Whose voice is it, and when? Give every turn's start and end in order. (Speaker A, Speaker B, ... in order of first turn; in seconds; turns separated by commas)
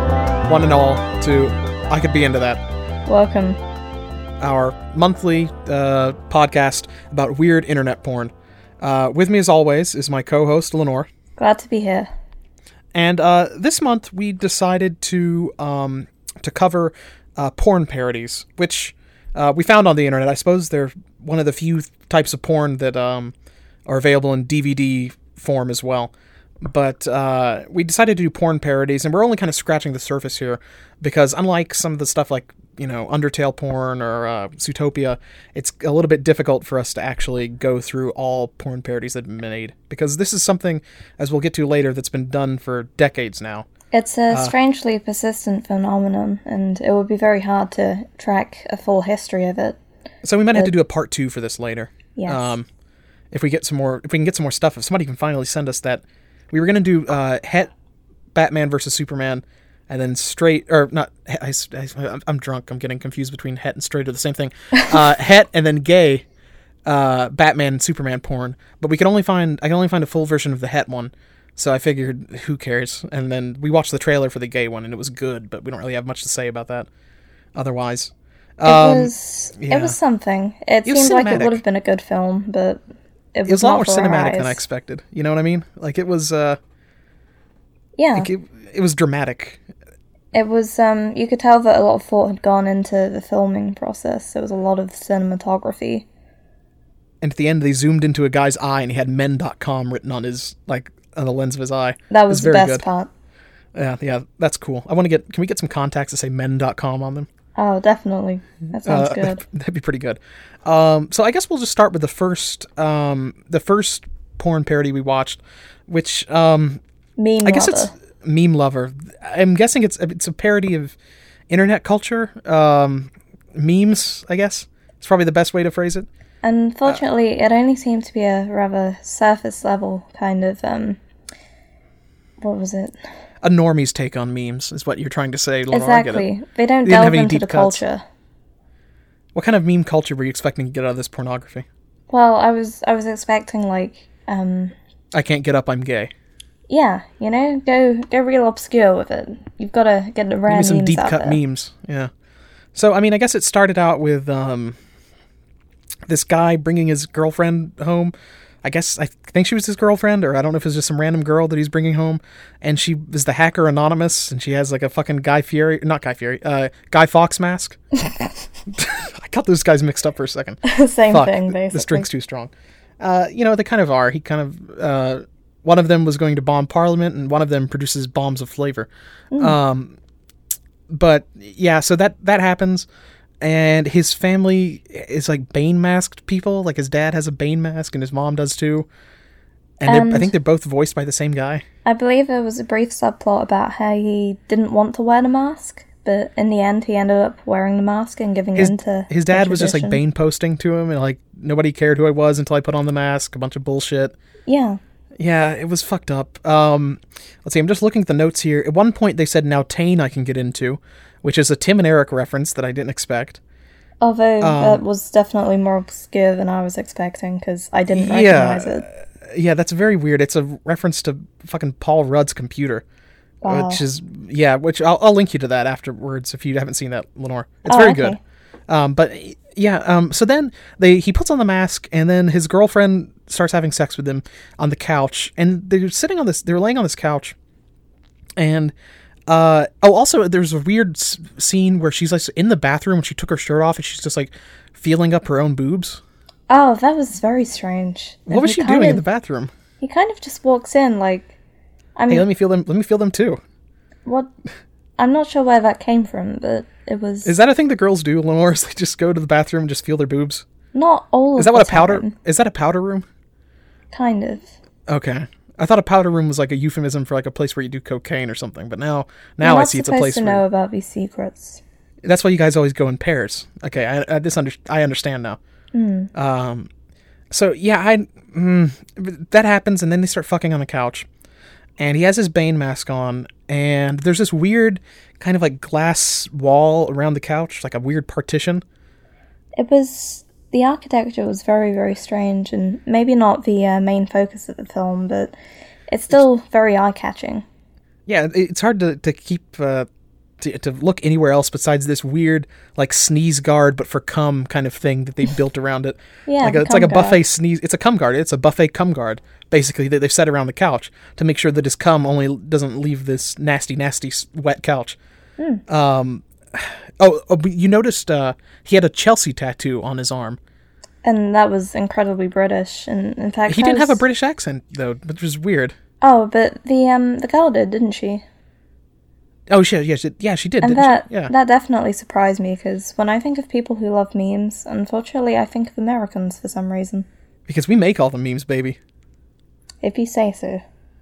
Speaker A: 0.4-2.6, Speaker B: 3.0-3.6, Speaker A: 4.4-11.1, Speaker B: 11.4-12.1, Speaker A: 12.9-23.3, Speaker A: 23.9-26.1, Speaker A: 26.6-43.7, Speaker B: 43.9-49.8, Speaker A: 50.2-52.6, Speaker B: 52.1-52.5, Speaker A: 53.3-57.7, Speaker A: 58.3-66.2, Speaker A: 66.8-76.9, Speaker A: 77.5-79.9, Speaker B: 78.6-82.8, Speaker A: 80.8-81.6, Speaker B: 83.3-84.6, Speaker A: 83.5-86.6, Speaker B: 88.0-88.3, Speaker A: 88.2-89.6, Speaker B: 90.3-96.0, Speaker A: 97.2-102.8, Speaker B: 102.1-103.1, Speaker A: 103.7-107.3, Speaker B: 107.6-109.4, Speaker A: 108.8-116.8, Speaker B: 117.2-117.9, Speaker A: 117.4-121.0, Speaker A: 121.5-126.1, Speaker B: 126.4-131.0, Speaker B: 132.4-132.9, Speaker A: 133.4-136.3, Speaker B: 135.7-138.0, Speaker A: 136.8-137.8, Speaker A: 139.3-141.7, Speaker B: 142.1-144.8, Speaker A: 145.1-146.1, Speaker B: 146.7-151.4, Speaker A: 150.5-152.1, Speaker A: 152.7-154.8, Speaker A: 156.1-158.1, Speaker A: 158.6-167.8, Speaker A: 168.7-179.9, Speaker B: 170.6-172.1, Speaker B: 179.3-179.6, Speaker A: 180.9-182.9, Speaker A: 183.4-188.9, Speaker A: 189.8-191.6, Speaker B: 189.8-190.3, Speaker B: 191.8-200.0, Speaker A: 198.6-204.1, Speaker B: 204.5-204.8, Speaker A: 205.2-213.4, Speaker B: 214.0-218.8, Speaker A: 214.4-214.8, Speaker A: 217.9-222.8, Speaker B: 223.4-223.8, Speaker A: 223.4-228.2, Speaker B: 227.7-228.2, Speaker A: 228.7-237.3, Speaker A: 238.4-238.7, Speaker A: 239.3-246.0, Speaker B: 246.5-249.0, Speaker A: 248.3-249.5, Speaker B: 249.8-251.3, Speaker B: 252.0-252.2, Speaker A: 252.1-253.4, Speaker B: 255.0-257.4, Speaker A: 257.2-260.4, Speaker B: 260.7-262.1, Speaker A: 261.4-263.1, Speaker B: 263.9-264.5, Speaker A: 264.9-270.4, Speaker B: 269.4-271.6, Speaker A: 272.0-275.4, Speaker B: 275.7-276.1, Speaker A: 276.1-276.7, Speaker A: 277.3-281.1, Speaker A: 281.8-288.6, Speaker B: 289.6-295.4, Speaker B: 295.9-297.4, Speaker A: 298.1-299.9, Speaker A: 300.4-315.0, Speaker B: 306.3-307.2, Speaker A: 315.7-320.4, Speaker B: 321.0-324.0, Speaker A: 323.5-325.7, Speaker B: 326.0-328.2, Speaker A: 329.5-331.3, Speaker B: 330.6-337.1, Speaker A: 337.5-338.8, Speaker B: 339.8-340.6